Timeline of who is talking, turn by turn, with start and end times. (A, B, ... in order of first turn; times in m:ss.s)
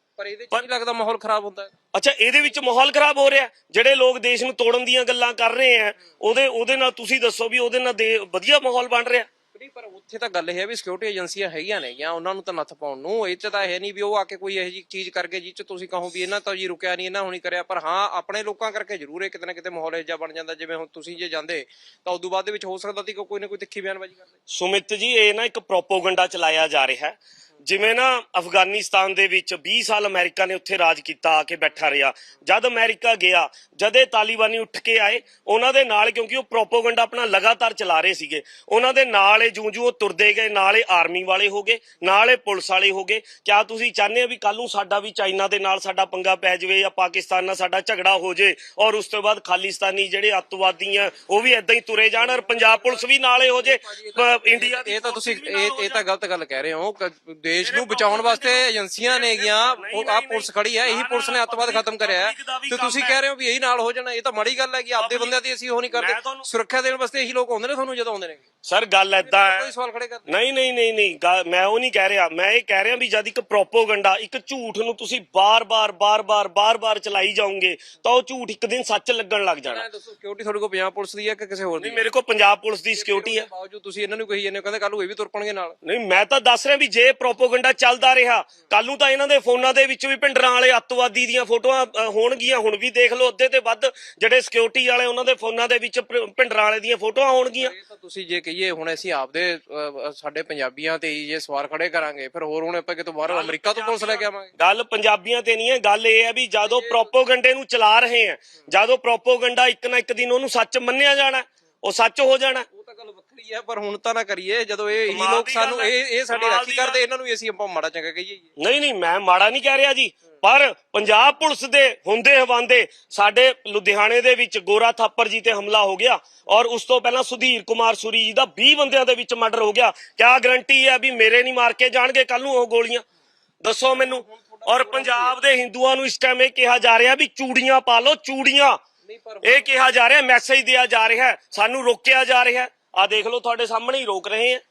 0:00.2-0:01.7 A
0:01.9-0:09.3 B
0:09.5-0:24.3 A
0:24.5-0:56.0 B
0:52.2-0:53.0 A
0:53.5-1:08.4 A
0:57.6-1:03.2 B
1:05.0-1:05.4 B
1:05.9-1:06.5 B
1:08.6-1:09.7 B
1:09.2-1:10.3 A
1:10.3-1:19.8 B
1:19.7-1:22.0 A
1:21.8-1:23.5 B
1:22.9-1:25.8 A
1:25.8-1:37.7 B
1:37.5-1:44.5 A
1:43.3-1:52.7 B
1:46.6-1:47.1 A
1:52.7-1:58.5 A
1:55.1-1:57.0 B
1:58.6-2:13.0 B
2:13.6-2:18.8 B
2:13.9-2:15.4 A
2:19.0-2:19.8 A
2:19.4-2:24.6 B